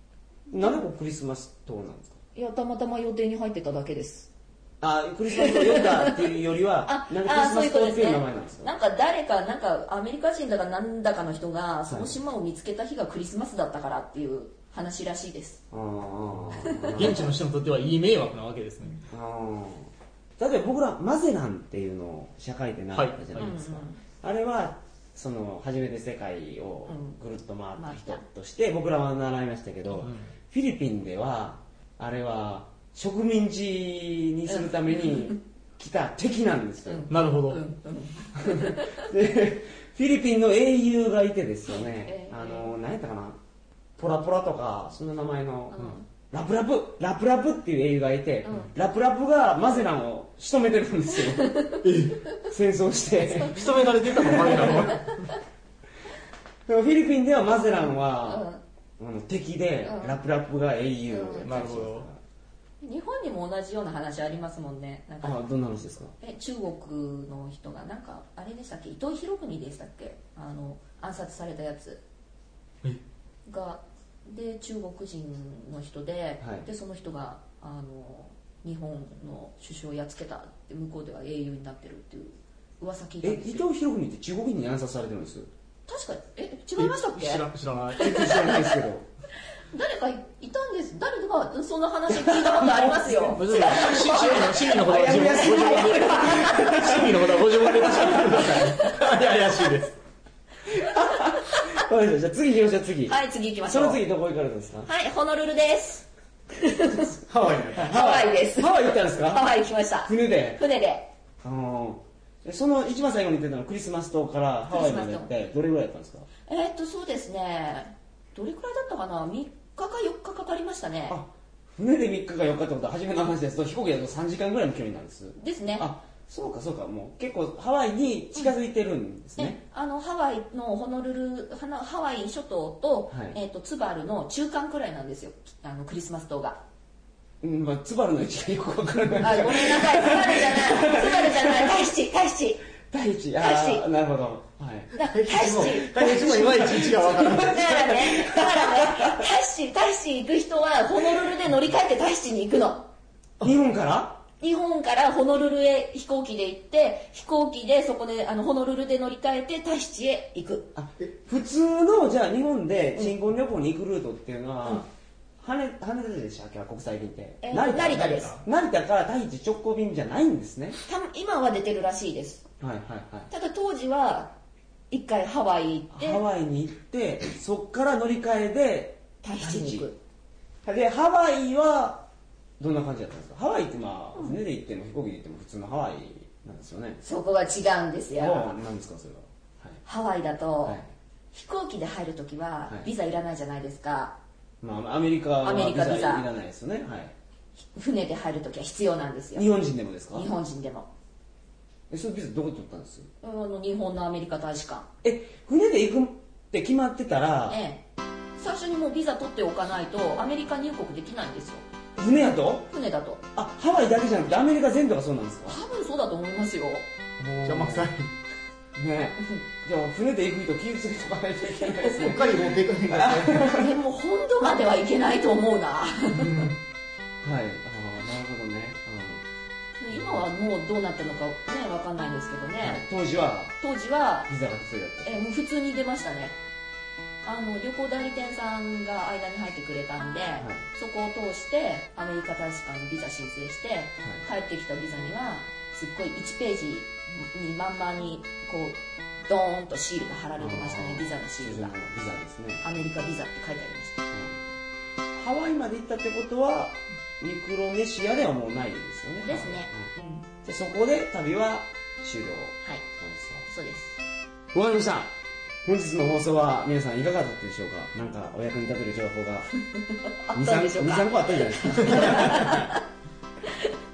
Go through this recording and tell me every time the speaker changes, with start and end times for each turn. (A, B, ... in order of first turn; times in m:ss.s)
0:00.5-0:02.2 A
0:02.3-0:04.3 B
0:04.8-0:08.7 A
0:05.3-0:06.3 B
0:06.8-0:15.6 B
0:11.9-0:12.1 A
0:15.7-0:17.2 A
0:16.5-0:17.2 B
0:16.9-0:19.0 C
0:19.1-0:37.1 A
0:22.9-0:23.6 C
0:23.3-0:24.0 B
0:26.9-0:27.2 B
0:27.7-0:28.2 B
0:29.9-0:30.2 C
0:34.5-0:35.4 B
0:36.8-0:39.1 B
0:37.1-0:37.6 C
0:38.3-0:43.4 A
0:41.7-0:42.7 B
0:44.0-0:51.6 A
0:45.7-0:46.0 B
0:51.5-0:51.8 B
0:51.8-0:52.2 C
0:52.4-0:53.6 A
0:53.3-0:55.2 C
0:54.2-0:55.3 B
0:54.3-0:54.8 A
0:56.7-0:58.5 A
0:57.5-0:58.6 B
0:59.0-1:02.2 A
0:59.8-1:00.2 B
1:01.1-1:01.5 B
1:01.4-1:02.1 C
1:02.8-1:05.5 B
1:05.2-1:06.1 A
1:06.2-1:12.0 B
1:13.5-1:23.7 B
1:16.4-1:16.7 A
1:23.2-1:25.5 A
1:25.9-1:27.5 B
1:26.8-1:28.4 C
1:28.0-1:29.0 A
1:28.0-1:28.8 B
1:29.7-1:36.8 B
1:32.1-1:38.6 A
1:33.1-1:40.0 C
1:38.0-1:38.9 B
1:40.7-1:43.2 A
1:40.7-1:41.7 B
1:43.0-1:44.0 B
1:43.7-1:44.9 A
1:44.8-1:47.2 B
1:47.2-1:48.0 C
1:47.7-1:50.6 A
1:47.8-1:51.1 B
1:51.4-1:56.3 A
1:54.7-1:55.3 B
1:56.5-2:01.2 B
2:01.1-2:09.6 A
2:05.4-2:05.9 B
2:09.4-2:16.6 B
2:13.1-2:13.4 A
2:17.4-2:21.9 A
2:19.2-2:22.6 B
2:22.8-2:24.9 A
2:23.4-2:23.9 B
2:24.9-2:27.6 C
2:24.9-2:26.1 B
2:25.9-2:29.2 A
2:27.3-2:32.9 B
2:33.4-2:34.2 A
2:34.4-2:40.7 B
2:40.7-2:50.8 A
2:47.4-2:48.4 B
2:50.8-2:52.4 B
2:52.6-2:53.3 A
2:53.3-2:54.4 B
2:54.9-2:56.2 B
2:55.9-2:59.9 A
2:59.2-3:00.0 B
3:00.6-3:02.0 A
3:02.6-3:07.0 A
3:07.0-3:08.6 B
3:08.2-3:09.8 A
3:09.8-3:10.8 B
3:10.6-3:10.9 A
3:11.3-3:14.2 B
3:14.6-3:17.1 A
3:15.4-3:16.3 B
3:17.7-3:19.5 B
3:19.3-3:20.3 A
3:20.1-3:20.9 B
3:21.9-3:23.1 A
3:23.2-3:24.9 B
3:25.0-3:27.6 A
3:27.5-3:27.8 B
3:28.4-3:31.6 B
3:32.0-3:32.7 A
3:32.7-3:33.2 B
3:33.3-3:35.6 A
3:35.4-3:36.9 B
3:37.2-3:37.9 A
3:37.4-3:38.1 C
3:38.7-3:43.7 A
3:41.8-3:43.6 C
3:43.4-3:46.5 B
3:46.2-3:46.5 C
3:47.2-3:49.2 A
3:49.8-3:52.8 B
3:52.6-3:53.5 A
3:53.6-3:54.3 B
3:54.3-3:55.2 A
3:55.0-3:56.4 B
3:57.2-4:11.8 B
4:00.4-4:00.6 A
4:10.4-4:12.6 A
4:12.6-4:14.0 B
4:14.1-4:14.4 A
4:15.2-4:19.9 A
4:19.2-4:20.3 B
4:20.4-4:23.5 A
4:23.5-4:24.0 B
4:24.5-4:25.1 A
4:25.6-4:29.5 A
4:30.0-4:32.8 B
4:30.3-4:32.7 A